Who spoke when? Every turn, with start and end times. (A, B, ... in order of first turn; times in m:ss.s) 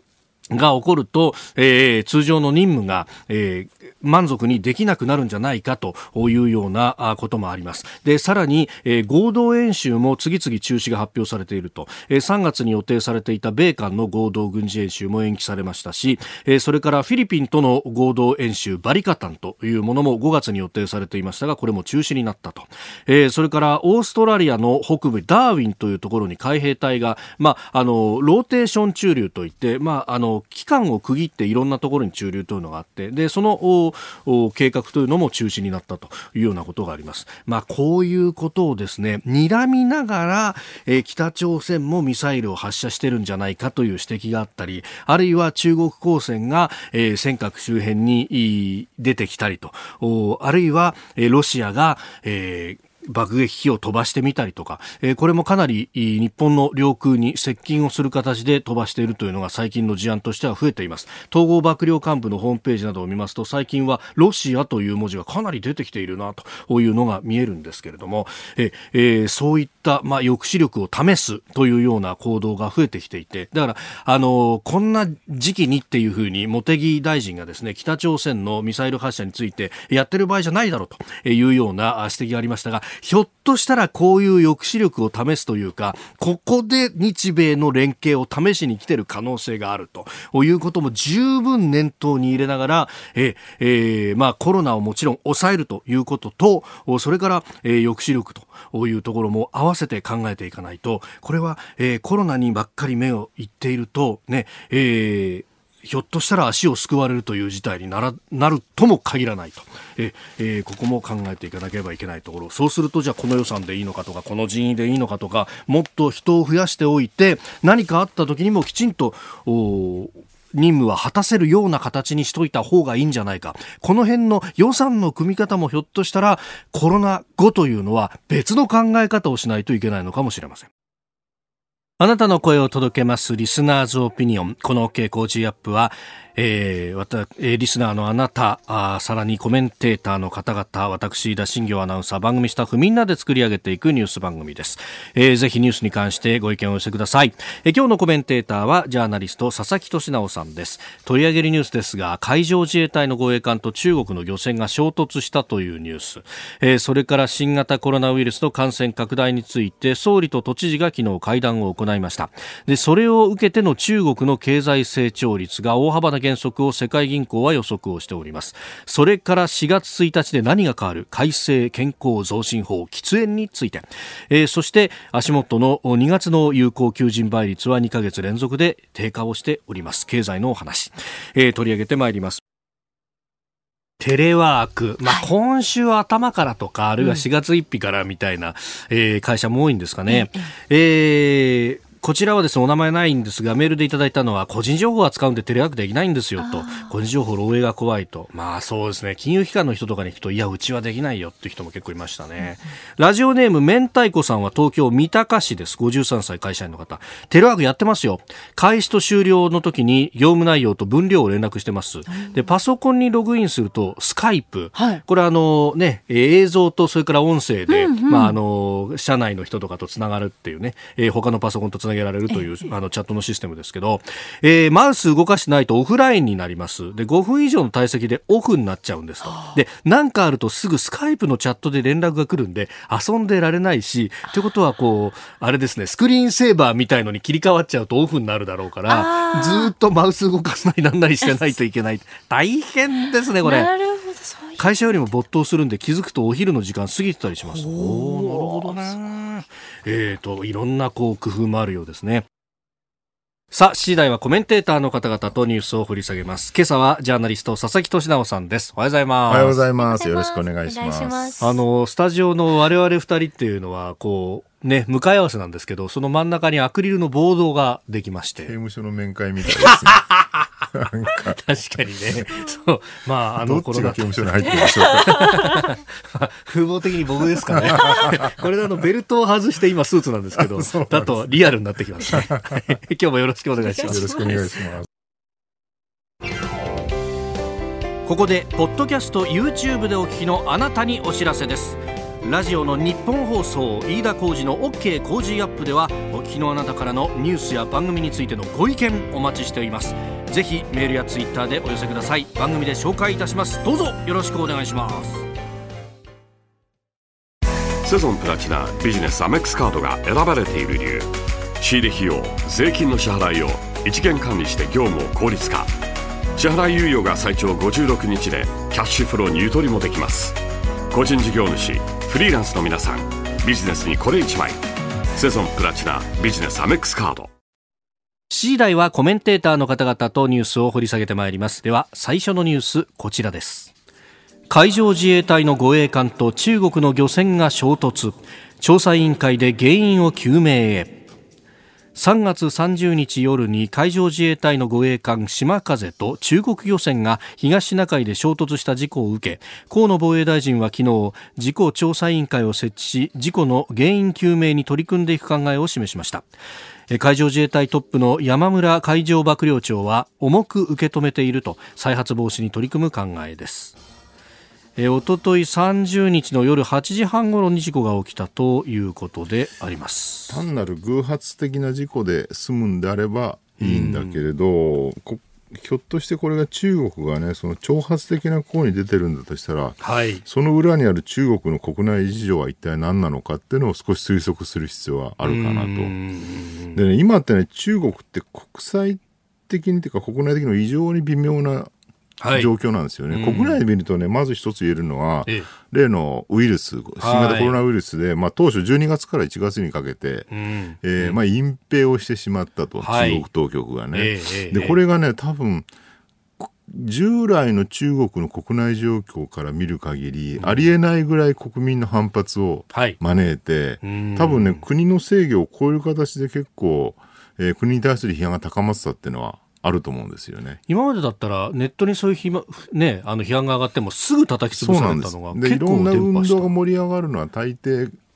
0:00.5-2:10.7 A
2:12.0-3:02.4 A
3:04.0-4:03.7 A
3:10.1-3:10.5 B
3:16.4-3:16.9 B
3:32.1-3:32.4 B
3:34.8-3:35.0 B
3:37.7-3:38.4 B
3:58.9-3:59.7 B
4:03.4-4:04.9 B
4:04.6-4:12.2 A
4:07.4-4:08.7 B
4:13.5-4:19.6 A
4:19.3-4:21.4 C
4:19.8-4:21.6 B
4:21.4-4:28.6 A
4:28.4-4:30.0 C
4:29.7-4:30.4 A
4:30.7-4:31.4 C
4:31.1-4:44.4 A
4:33.4-4:35.6 C
4:37.8-4:38.1 C
4:40.4-4:41.2 C
4:42.1-4:42.6 C
4:43.7-4:44.4 B
4:43.8-4:44.9 C
4:48.1-5:05.2 A
5:07.8-5:15.7 D
5:16.4-5:20.4 D
5:20.9-5:24.6 D
5:25.1-5:27.3 D
5:28.3-5:33.7 A
5:34.5-5:41.0 A
5:42.0-5:56.2 A
5:56.9-6:03.8 A
6:04.8-6:10.4 A
6:10.3-6:26.0 C
6:13.6-6:14.2 A
6:19.8-6:20.2 A
6:25.2-6:26.8 A
6:26.7-6:31.7 C
6:32.2-6:32.5 A
6:32.3-6:40.3 C
6:33.1-6:33.6 A
6:37.0-6:37.6 A
6:40.3-6:41.2 A
6:40.8-6:45.7 C
6:42.8-6:43.2 A
6:43.9-6:44.8 A
6:46.4-7:00.6 C
6:50.4-6:50.7 A
6:52.7-6:53.0 A
6:53.8-6:54.6 A
7:00.7-7:06.5 A
7:04.5-7:07.9 C